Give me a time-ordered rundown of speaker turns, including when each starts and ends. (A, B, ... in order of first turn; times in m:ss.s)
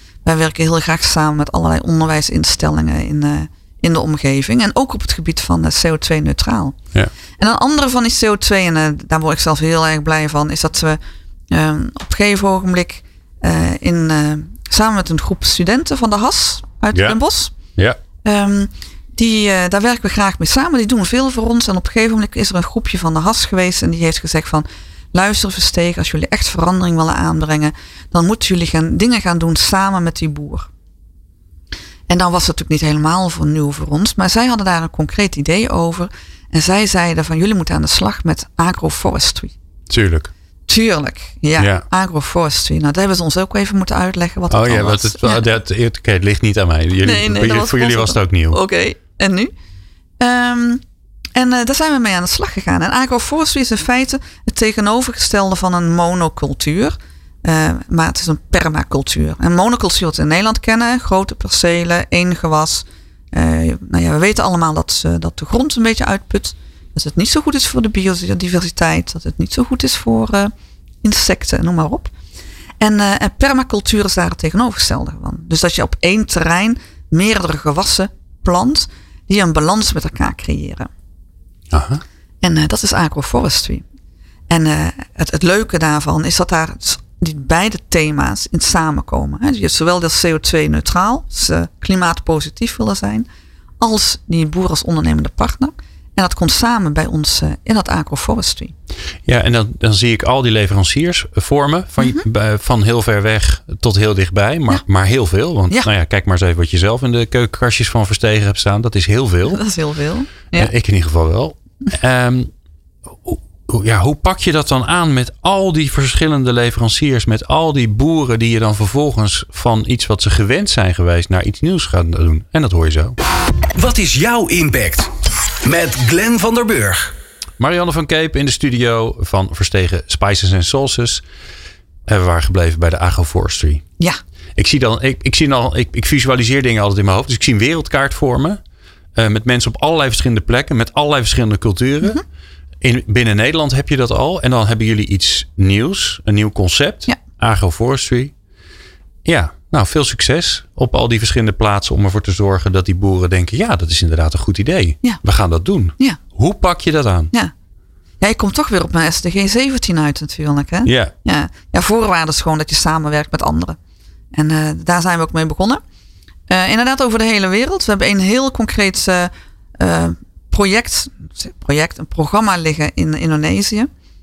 0:00.2-0:06.8 A
0:07.4-0:11.0 A
0:11.5-0:17.6 A
0:16.9-0:17.2 B
0:18.2-0:30.7 A
0:32.1-0:39.5 A
0:39.9-0:40.3 B
0:40.7-0:45.4 A
0:41.6-0:41.8 B
0:44.5-0:48.6 B
0:47.0-0:49.5 A
0:50.2-0:50.8 A
0:51.4-1:12.1 A
1:12.8-1:20.9 A
1:21.7-1:22.0 B
1:22.4-1:23.8 A
1:24.5-1:33.3 A
1:33.8-1:38.8 A
1:39.3-1:49.6 B
1:49.5-1:50.7 A
1:50.5-1:52.5 B
1:53.1-2:03.2 B
2:03.8-2:05.1 C
2:05.6-2:07.1 C
2:07.6-2:11.2 B
2:12.1-2:13.8 B
2:14.6-2:18.6 B
2:19.2-2:22.2 B
2:22.8-2:28.3 B
2:29.2-2:37.3 B
2:38.2-2:43.8 A
2:40.8-2:41.1 B
2:44.3-2:45.8 A
2:46.5-2:53.9 A